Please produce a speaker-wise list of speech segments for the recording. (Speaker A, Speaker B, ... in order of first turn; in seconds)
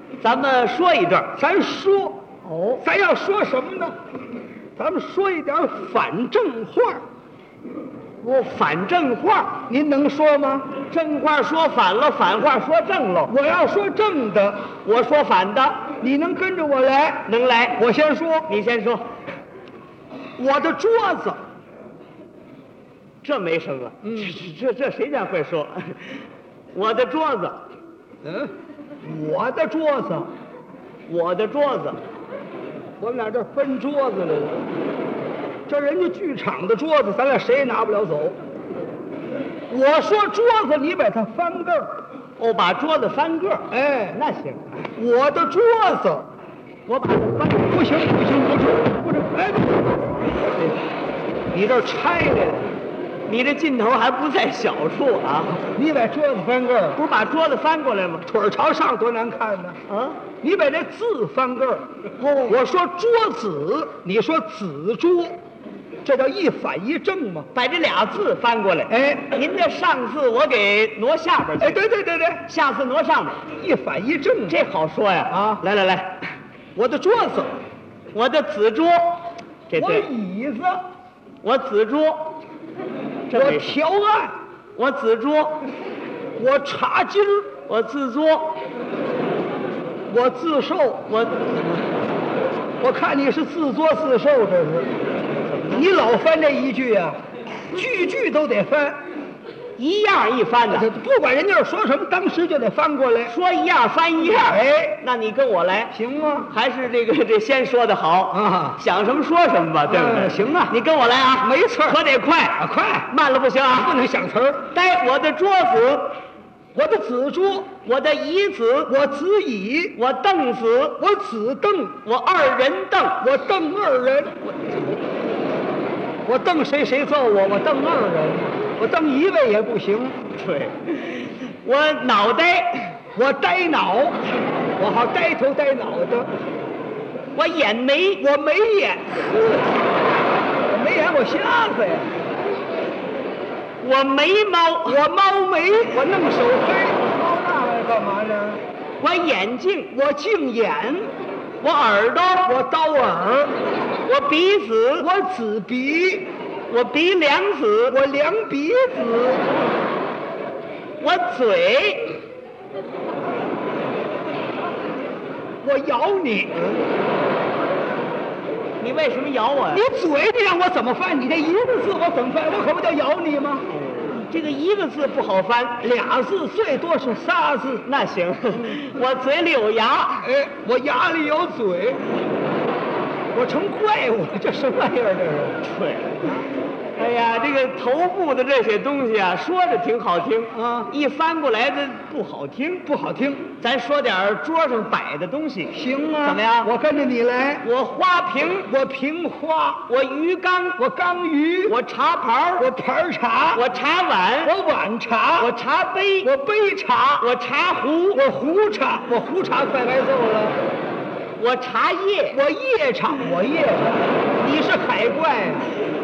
Speaker A: 0.2-1.4, 2.5-2.8, 8.2-9.6, 10.8-13.3, 14.8-15.9, 17.3-17.9, 18.5-19.1, 23.2-27.6, 31.1-32.0, 42.4-44.8, 46.9-47.8, 53.3-55.7, 57.0-58.3, 59.9-60.2, 62.2-62.6, 67.5-71.8, 72.5-73.4, 74.5-76.2, 78.1-80.1, 81.4-82.4, 83.3-83.8, 84.8-85.7, 87.7-88.6, 91.1-91.9, 95.5-95.9, 99.8-100.9, 103.3-106.0, 106.5-114.0, 114.7-116.2, 117.8-119.0, 120.0-121.0, 122.0-123.3, 130.3-133.0, 137.3-138.2, 143.8-145.0, 149.0-149.9, 151.6-152.5, 154.1-155.1, 156.7-158.0, 161.0-162.2, 168.8-169.8, 173.7-175.9, 177.8-180.3, 185.6-192.9, 193.6-196.7, 197.6-198.7, 199.9-200.8, 201.7-202.7, 203.5-204.5, 205.4-206.3, 207.2-208.2, 211.4-212.4
Speaker B: 1.4-2.2, 2.8-4.0, 4.8-7.0, 9.7-10.7, 13.3-14.7, 16.0-18.5, 20.4-21.4, 24.0-24.3, 28.2-28.5, 29.0-30.3, 33.0-34.6, 35.7-38.4, 39.7-42.0, 43.7-44.2, 45.0-46.3, 47.7-50.0, 51.5-52.7, 55.7-57.0, 58.3-59.8, 60.4-61.9, 62.5-65.4, 66.0-67.5, 68.9-69.3, 71.6-72.4, 73.6-74.6, 75.3-75.6, 76.8-77.5, 79.7-80.8, 83.3-84.3, 86.4-87.5, 90.1-91.1, 92.8-94.9, 95.7-97.2, 97.7-99.0, 100.7-103.3, 104.4-105.0, 105.9-106.5, 108.3-108.8, 109.9-110.7, 111.4-112.0, 112.6-113.1, 113.8-114.7, 116.8-117.7, 118.9-120.0, 121.0-122.0, 123.2-124.8, 126.2-130.2, 133.2-134.2, 134.8-136.3, 138.2-139.8, 140.7-142.1, 144.9-148.6, 149.9-151.1, 152.5-153.5, 155.0-156.3, 157.9-159.5, 165.6-166.8, 169.7-173.7, 175.8-177.9, 180.2-182.1, 183.3-185.6, 190.5-190.9, 192.9-193.5, 195.7-197.7, 198.7-199.8, 200.8-201.8, 202.6-203.6, 204.4-205.5, 206.2-207.3, 208.1-210.6, 212.3-215.7